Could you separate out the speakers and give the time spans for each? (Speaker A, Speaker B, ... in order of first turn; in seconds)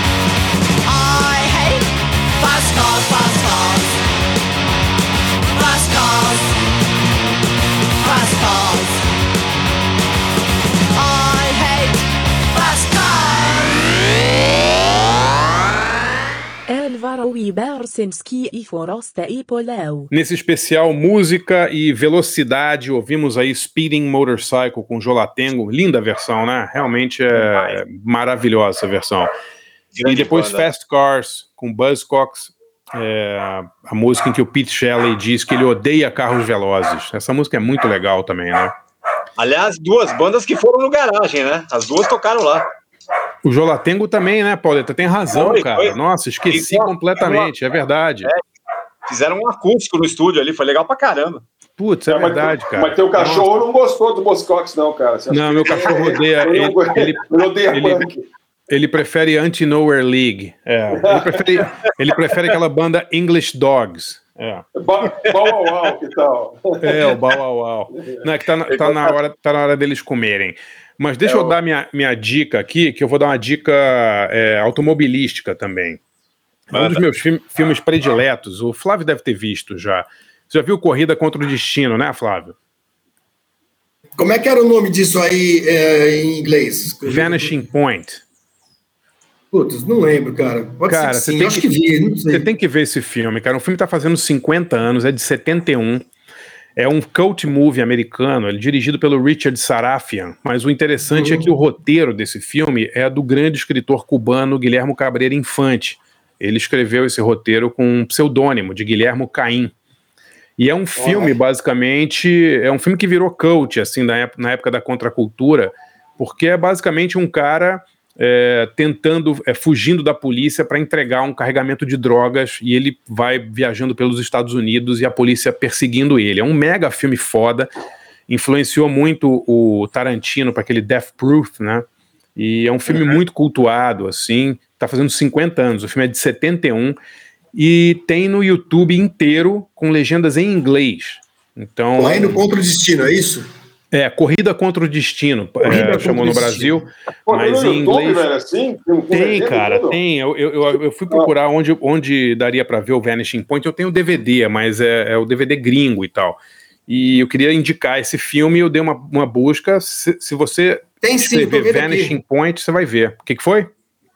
Speaker A: 0.8-4.0, 5.5-6.6, 8.0-9.0, 10.9-13.8, 16.9-20.1
Speaker B: 20.1-29.3, 30.1-38.7, 43.4-48.3, 51.8-53.5, 55.3-58.0, 58.7-64.6, 66.8-76.0, 76.7-82.5, 87.0-88.2, 90.9-91.7, 92.3-96.0, 96.8-109.7, 110.6-127.7, 128.3-131.8, 132.3-137.0, 137.5-142.3, 143.9-148.2, 149.1-163.7
Speaker C: 29.9-30.6, 39.4-42.6, 45.3-45.9, 46.5-47.5, 49.1-51.4, 65.1-65.7, 68.7-69.2, 71.2-71.6, 76.7-77.0
Speaker D: 52.1-58.2, 60.9-61.4, 64.8-67.1, 68.0-68.2, 111.0-111.3, 147.3-150.0
Speaker E: 84.2-87.6, 89.5-92.5, 101.1-101.5, 141.9-143.5, 145.6-146.8, 161.0-162.2